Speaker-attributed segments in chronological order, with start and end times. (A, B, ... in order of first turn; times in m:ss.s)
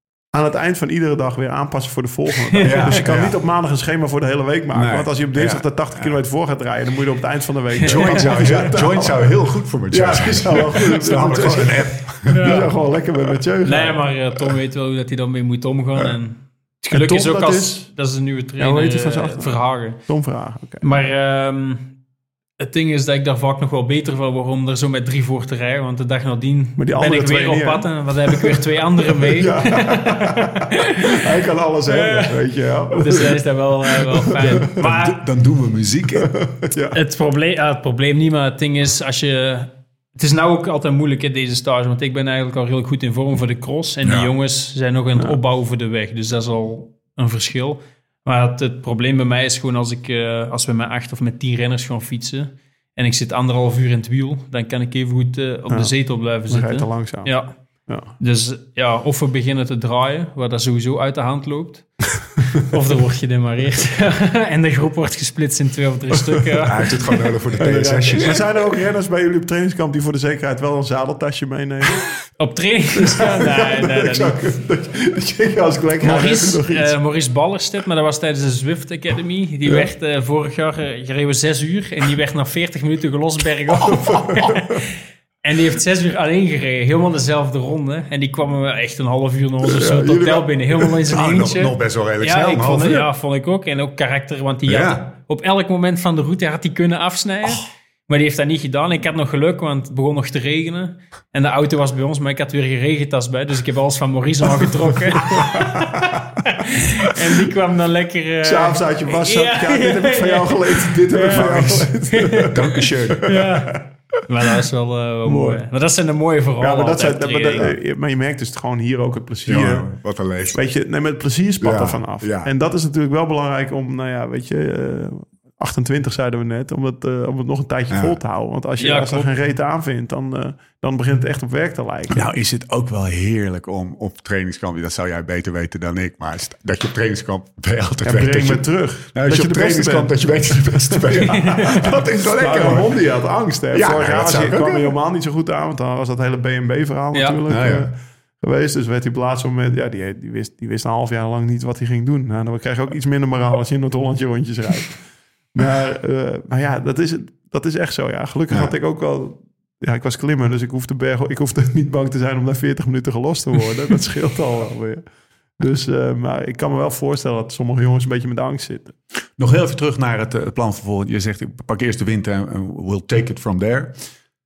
0:00.3-0:14.0 A
0:02.6-0:03.4 B
0:04.7-0:06.2 B
0:07.8-0:08.6 C
0:07.9-0:12.6 B
0:12.3-0:12.7 C
0:13.6-0:20.0 C
0:16.9-0:17.9 A
0:18.6-0:20.9 A
0:20.8-0:22.0 C
0:22.6-0:31.2 C
0:26.8-0:28.6 A
0:29.2-0:30.4 A
0:31.2-0:33.4 A
0:31.9-0:32.4 C
0:33.0-0:35.2 C
0:34.0-0:34.4 A
0:34.8-0:36.4 B
0:36.5-0:37.0 A
0:36.9-1:07.3 C
0:44.0-0:44.3 B
0:55.7-0:58.1 A
1:06.6-1:08.5 B
1:07.6-1:12.1 A
1:12.4-1:14.5 C
1:13.0-1:17.0 A
1:16.0-1:24.8 C
1:23.7-1:24.6 B
1:25.4-1:52.5 C
1:29.7-1:31.0 A
1:31.1-1:33.1 B
1:34.6-1:35.1 B
1:48.4-1:52.6 A
1:51.3-1:53.5 B
1:53.2-1:57.7 C
1:55.2-1:55.6 A
1:56.6-1:59.9 A
1:59.4-2:00.6 B
2:00.5-2:12.2 A
2:01.6-2:02.5 B
2:07.9-2:08.2 B
2:08.8-2:09.3 C
2:12.1-2:23.0 B
2:18.0-2:49.0 A
2:23.7-2:24.9 B
2:27.1-2:27.4 C
2:27.5-2:27.9 B
2:49.4-2:54.0 B